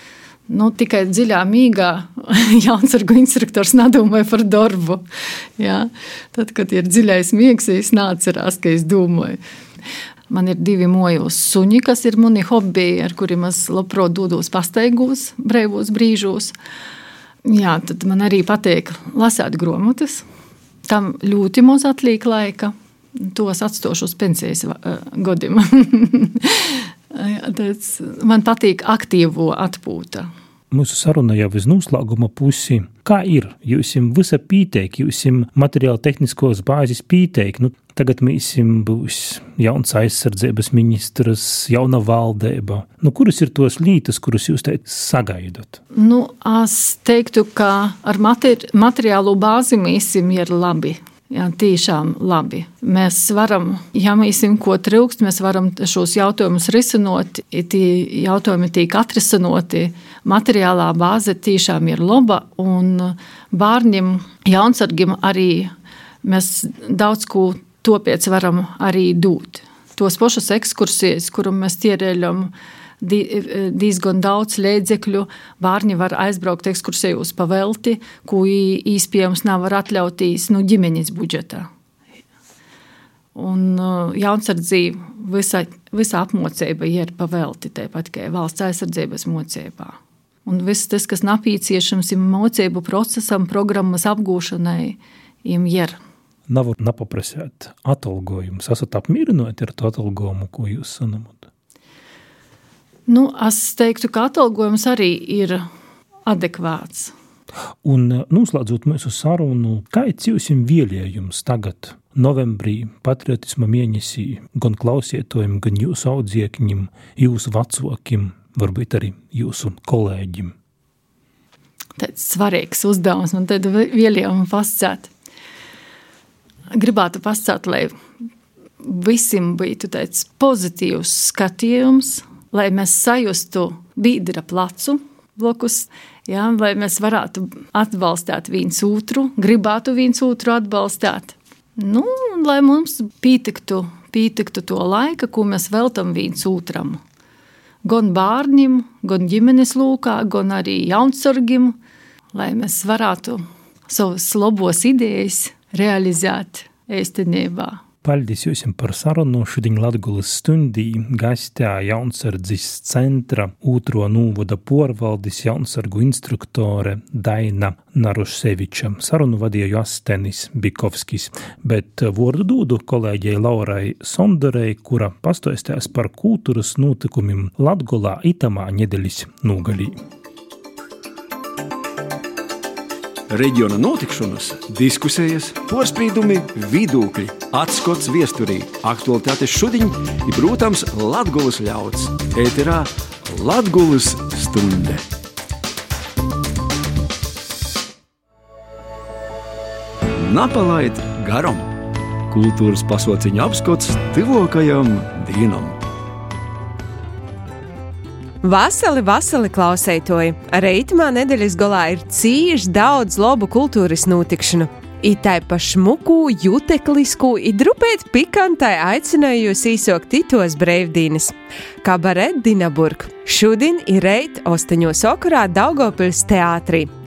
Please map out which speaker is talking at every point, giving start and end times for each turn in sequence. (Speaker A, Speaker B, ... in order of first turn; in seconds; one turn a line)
Speaker A: 0.5-5.0
Speaker A: 5.6-9.4
Speaker A: 10.3-16.6
Speaker A: 17.4-20.2
Speaker A: 20.9-30.3
Speaker B: 30.7-45.8
Speaker A: 45.9-65.7
Speaker A: 66.2-81.7
Speaker A: 83.3-96.0
Speaker B: 96.5-101.5
Speaker A: 103.1-105.6
Speaker A: 106.3-107.1
Speaker B: 107.8-120.5
Speaker A: 122.0-125.1
Speaker A: 126.7-128.0
Speaker A: 128.8-147.0
Speaker A: 147.8-151.8
Speaker A: 152.3-157.8
Speaker B: 158.0-180.0
Speaker C: 183.3-195.1
Speaker C: 200.1-205.8
Speaker D: 208.4-226.9